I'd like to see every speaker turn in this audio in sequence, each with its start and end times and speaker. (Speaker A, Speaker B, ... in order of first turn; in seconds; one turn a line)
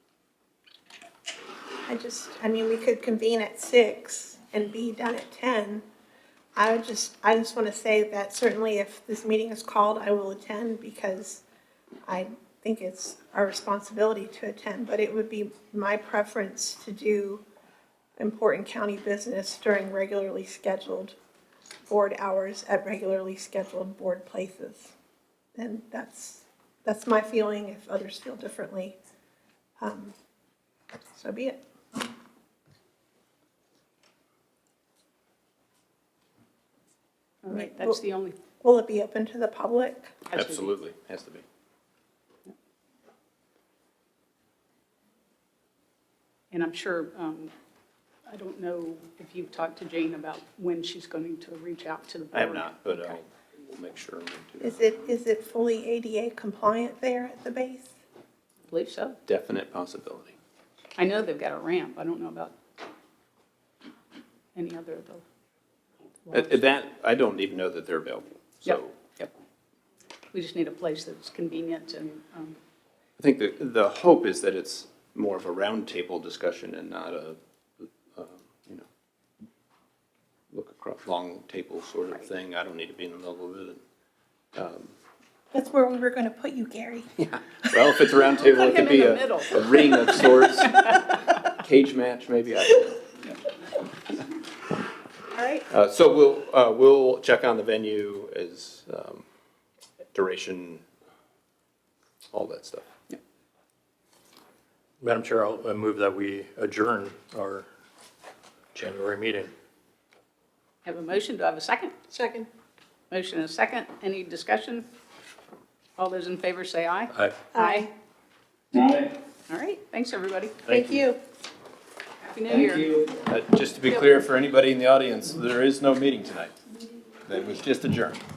Speaker A: 1.9-5.8
Speaker A: 6.5-11.4
Speaker A: 12.1-17.4
Speaker A: 18.2-21.1
Speaker A: 21.9-24.9
Speaker A: 25.6-29.0
Speaker A: 29.8-30.1
Speaker A: 31.1-31.6
Speaker B: 37.4-38.4
Speaker A: 37.5-38.0
Speaker A: 38.6-40.1
Speaker B: 40.3-40.7
Speaker C: 40.3-41.4
Speaker B: 46.5-47.5
Speaker B: 48.3-53.2
Speaker C: 52.3-54.9
Speaker A: 54.6-57.9
Speaker B: 58.7-59.2
Speaker C: 59.3-60.3
Speaker B: 61.0-62.5
Speaker B: 64.5-65.2
Speaker B: 66.2-66.6
Speaker C: 66.3-68.9
Speaker B: 68.7-69.3
Speaker B: 70.3-72.6
Speaker C: 73.2-78.9
Speaker C: 80.5-83.8
Speaker C: 84.5-84.9
Speaker A: 85.5-87.1
Speaker C: 87.2-90.9
Speaker A: 87.6-87.9
Speaker B: 88.4-90.8
Speaker C: 91.5-93.0
Speaker A: 95.3-95.6
Speaker C: 95.7-99.2
Speaker C: 100.1-100.8
Speaker C: 102.3-102.8
Speaker D: 105.0-107.7
Speaker D: 108.7-109.5
Speaker B: 110.8-111.9
Speaker A: 112.1-112.5
Speaker B: 113.1-114.9
Speaker B: 116.0-117.9
Speaker A: 117.5-117.9
Speaker B: 119.5-120.6
Speaker C: 120.7-121.0
Speaker A: 120.7-121.2
Speaker B: 122.3-122.9
Speaker C: 123.1-126.5
Speaker C: 127.2-128.2